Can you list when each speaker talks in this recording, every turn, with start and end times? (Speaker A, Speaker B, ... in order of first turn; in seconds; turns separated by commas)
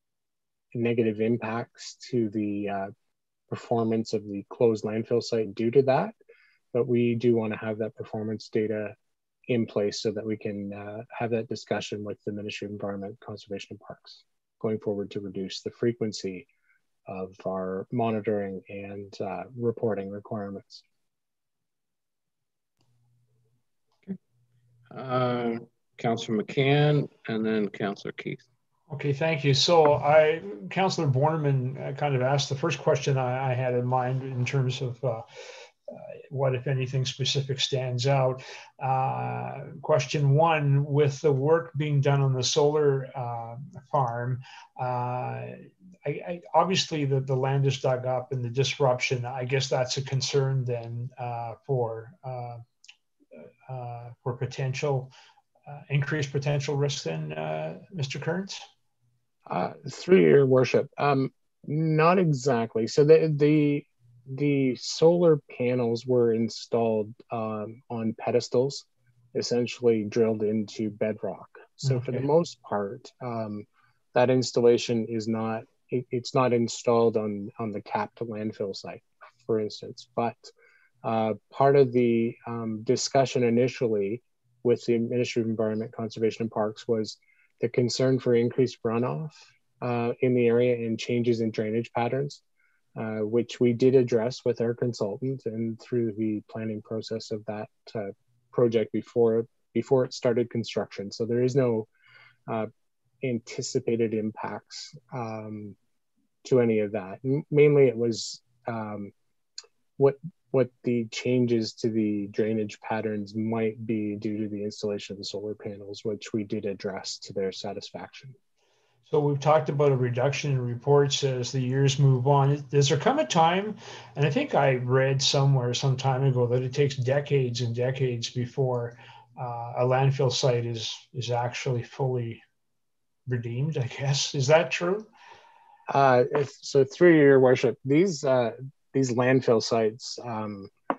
Speaker A: 0.7-2.9, Speaker A: 3.5-6.1, Speaker A: 6.7-8.9, Speaker A: 9.5-16.5, Speaker A: 17.1-20.8, Speaker B: 24.9-28.4, Speaker C: 28.9-35.2, Speaker C: 35.9-52.6, Speaker C: 53.7-55.1, Speaker C: 55.7-58.6, Speaker A: 59.5-80.5, Speaker C: 71.8-72.2, Speaker A: 81.0-92.4, Speaker A: 93.0-101.9, Speaker A: 103.2-105.8, Speaker A: 106.4-109.1, Speaker A: 110.0-118.3, Speaker C: 119.1-132.4, Speaker C: 133.3-135.1, Speaker A: 135.9-140.7